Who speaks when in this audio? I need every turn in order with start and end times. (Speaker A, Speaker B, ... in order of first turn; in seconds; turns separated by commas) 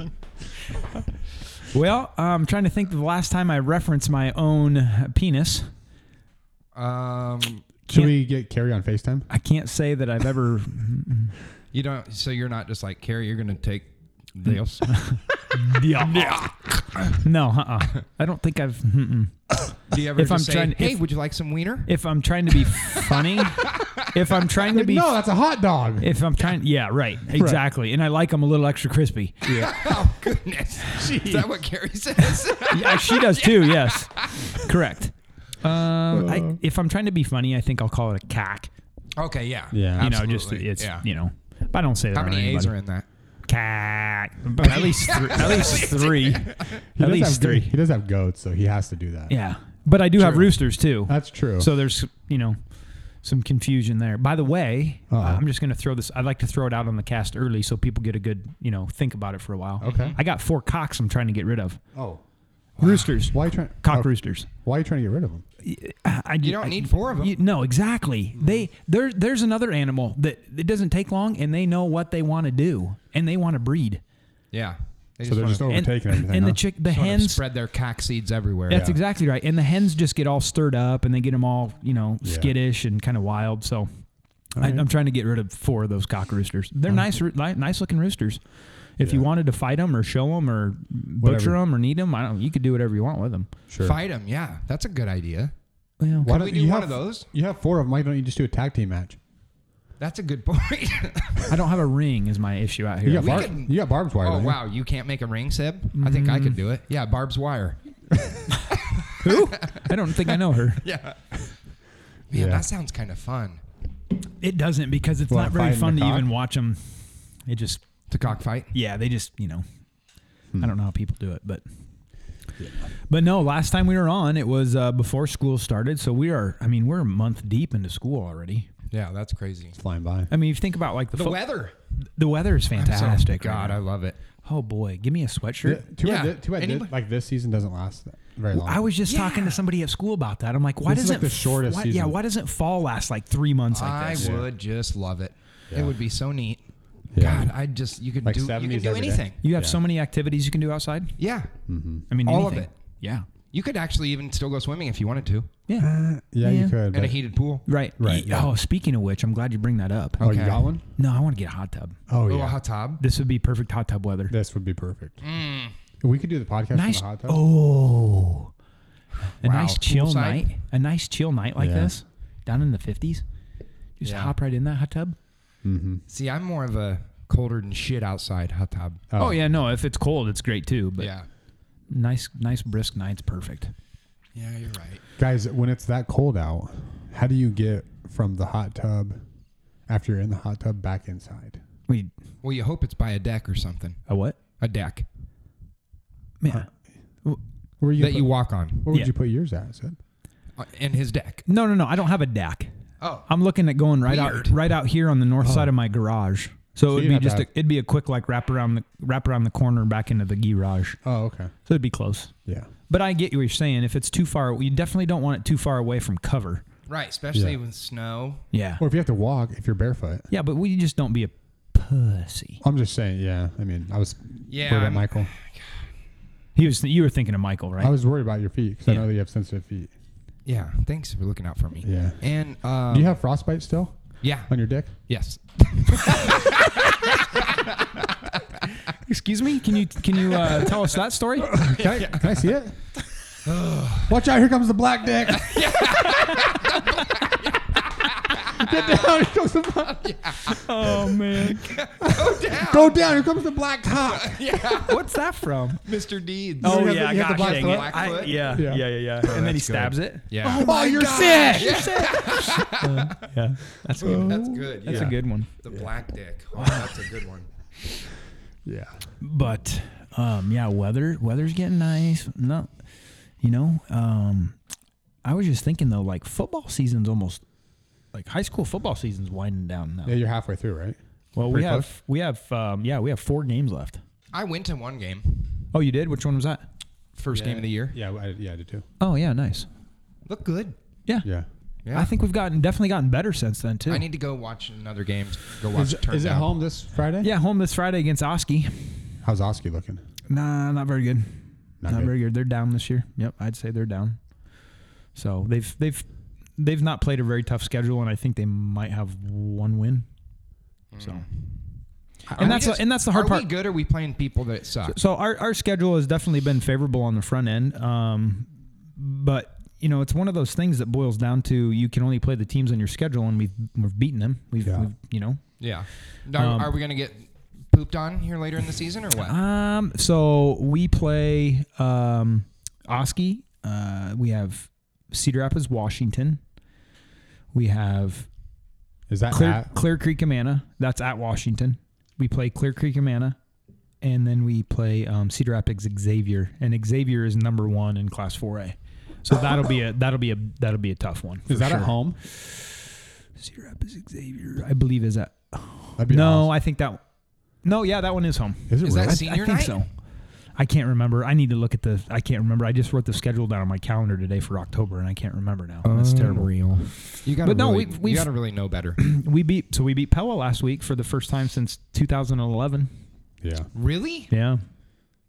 Speaker A: 1.7-5.7, Speaker B: 6.8-7.7, Speaker C: 7.9-9.3, Speaker A: 9.3-11.3, Speaker B: 11.7-15.0, Speaker A: 14.8-16.5, Speaker B: 16.0-17.2, Speaker A: 17.1-19.5, Speaker B: 19.9-21.9, Speaker A: 20.1-21.0, Speaker A: 21.9-25.1, Speaker B: 23.1-24.0, Speaker C: 24.7-26.1, Speaker A: 26.0-29.4, Speaker C: 27.3-27.6, Speaker C: 29.4-29.8, Speaker B: 29.5-34.6, Speaker A: 32.7-38.7, Speaker C: 36.1-36.6, Speaker B: 39.1-41.0, Speaker C: 39.7-40.1, Speaker A: 40.0-42.7, Speaker B: 42.1-43.1, Speaker A: 43.5-47.7, Speaker B: 44.6-46.8, Speaker C: 47.0-49.3, Speaker A: 49.3-52.6, Speaker C: 50.2-51.7, Speaker A: 53.2-61.8, Speaker C: 55.1-55.5, Speaker C: 59.8-60.2, Speaker B: 59.8-60.2, Speaker C: 61.9-62.2, Speaker B: 62.8-63.1, Speaker A: 62.8-64.5, Speaker C: 63.2-65.5, Speaker A: 65.6-74.0, Speaker B: 66.4-67.4, Speaker C: 68.4-68.7, Speaker B: 74.5-75.8, Speaker C: 75.2-76.6, Speaker A: 75.7-77.4, Speaker B: 76.9-78.9, Speaker A: 78.7-83.9, Speaker C: 78.7-79.0, Speaker C: 82.2-82.5, Speaker C: 84.6-84.8, Speaker A: 84.6-88.4, Speaker A: 89.0-93.5, Speaker C: 89.0-89.3, Speaker C: 91.2-91.6, Speaker C: 93.7-94.0, Speaker B: 93.8-95.5, Speaker A: 96.0-96.3, Speaker C: 96.2-99.2, Speaker B: 96.2-97.3, Speaker B: 100.0-101.6, Speaker A: 101.5-103.5, Speaker C: 103.0-104.6, Speaker B: 103.2-111.6, Speaker A: 106.0-106.6, Speaker A: 109.2-110.8, Speaker B: 112.3-113.6, Speaker C: 112.3-112.7, Speaker A: 114.4-117.8, Speaker C: 115.3-116.3, Speaker B: 118.1-118.7, Speaker A: 118.7-119.6, Speaker A: 120.6-121.6, Speaker C: 122.6-122.9, Speaker A: 123.1-128.7, Speaker B: 128.9-129.8, Speaker C: 129.8-130.3, Speaker A: 130.3-131.5, Speaker B: 131.1-131.8, Speaker A: 132.2-133.8, Speaker B: 132.8-134.2, Speaker A: 134.4-135.8, Speaker C: 135.6-138.9, Speaker B: 136.0-136.9, Speaker A: 138.5-144.3, Speaker B: 139.1-139.6, Speaker C: 140.9-142.2, Speaker B: 143.7-146.6, Speaker C: 144.2-144.5, Speaker C: 147.1-147.5, Speaker B: 147.1-149.4, Speaker C: 148.2-149.8, Speaker A: 149.4-151.1, Speaker B: 151.2-151.6, Speaker C: 151.7-152.1, Speaker A: 152.1-153.2, Speaker B: 152.2-152.7, Speaker B: 153.5-155.5, Speaker C: 155.8-157.2, Speaker A: 156.4-156.8, Speaker B: 156.9-157.7, Speaker A: 157.7-160.2, Speaker C: 158.0-158.5, Speaker B: 160.2-160.7, Speaker C: 160.2-160.8, Speaker A: 161.0-162.0, Speaker C: 162.1-162.6, Speaker B: 162.3-163.0, Speaker A: 163.0-164.3, Speaker C: 164.3-165.2, Speaker B: 165.2-165.8, Speaker C: 166.0-167.4, Speaker A: 166.7-168.5, Speaker B: 169.3-170.5, Speaker A: 169.4-173.2, Speaker C: 171.6-171.9, Speaker A: 174.0-175.2, Speaker B: 174.0-174.3, Speaker C: 175.6-176.0, Speaker B: 176.1-179.0, Speaker C: 179.1-179.4, Speaker A: 179.2-181.1, Speaker B: 181.0-181.3, Speaker A: 181.9-183.7, Speaker B: 184.3-185.0, Speaker C: 185.2-189.2, Speaker C: 189.9-191.6, Speaker B: 192.4-194.0, Speaker A: 194.1-194.4, Speaker B: 194.6-195.1, Speaker A: 196.4-196.7, Speaker C: 197.8-200.0, Speaker B: 198.0-198.9, Speaker B: 200.6-201.4, Speaker A: 201.5-202.7, Speaker B: 203.0-203.3, Speaker A: 203.3-211.0, Speaker B: 204.0-204.6, Speaker C: 205.4-205.7, Speaker C: 206.9-207.5, Speaker C: 211.0-211.5, Speaker A: 211.7-212.3, Speaker A: 212.9-216.6, Speaker B: 216.9-218.4, Speaker A: 218.5-218.8, Speaker C: 218.8-220.3, Speaker A: 220.3-222.6, Speaker C: 222.6-225.3, Speaker B: 224.5-225.8, Speaker A: 226.6-227.9, Speaker C: 227.8-229.9, Speaker B: 230.5-233.2, Speaker C: 231.8-232.2, Speaker C: 232.9-234.9, Speaker B: 234.2-238.5, Speaker A: 239.0-241.6, Speaker B: 240.4-240.8, Speaker C: 241.5-242.8, Speaker B: 241.5-242.5, Speaker B: 243.4-244.2, Speaker C: 244.1-246.2, Speaker B: 245.3-249.2, Speaker C: 248.5-250.6, Speaker B: 250.0-250.6, Speaker A: 250.5-251.8, Speaker B: 251.5-253.2, Speaker C: 252.0-254.4, Speaker B: 254.1-255.0, Speaker A: 254.8-255.8, Speaker B: 255.8-258.6, Speaker C: 256.6-258.9, Speaker A: 256.6-265.5, Speaker B: 259.2-263.2, Speaker C: 260.6-262.1, Speaker C: 264.0-265.9, Speaker B: 264.0-267.5, Speaker A: 266.6-266.9, Speaker C: 268.6-269.0, Speaker A: 269.2-272.7, Speaker A: 273.4-274.6, Speaker A: 275.2-277.4, Speaker A: 278.1-280.2, Speaker C: 280.0-281.9, Speaker A: 281.4-284.0, Speaker B: 284.3-285.6, Speaker A: 285.7-286.6, Speaker B: 287.1-288.0, Speaker C: 287.3-288.9, Speaker A: 289.0-289.7, Speaker B: 290.2-290.8, Speaker B: 291.9-292.1, Speaker A: 291.9-294.1, Speaker B: 293.9-296.5, Speaker C: 295.7-297.3, Speaker A: 297.2-299.0, Speaker C: 299.2-300.0, Speaker A: 300.3-304.2, Speaker C: 301.8-302.1, Speaker A: 305.1-306.1, Speaker A: 306.6-310.1, Speaker B: 310.9-311.4, Speaker A: 311.0-311.2, Speaker A: 312.3-313.5, Speaker B: 312.4-315.0, Speaker A: 314.9-325.4, Speaker C: 324.6-324.9, Speaker B: 325.6-329.4, Speaker A: 326.4-326.7, Speaker A: 329.2-336.4, Speaker A: 337.5-338.3, Speaker C: 339.1-339.7, Speaker A: 339.3-343.4, Speaker A: 344.0-357.0, Speaker C: 351.5-352.2, Speaker C: 356.0-356.5, Speaker A: 357.6-359.9, Speaker C: 358.7-359.2, Speaker B: 358.8-359.8, Speaker A: 360.6-368.3, Speaker B: 365.8-369.0, Speaker A: 369.0-372.9, Speaker C: 373.4-373.7, Speaker B: 373.7-374.3, Speaker A: 374.3-374.6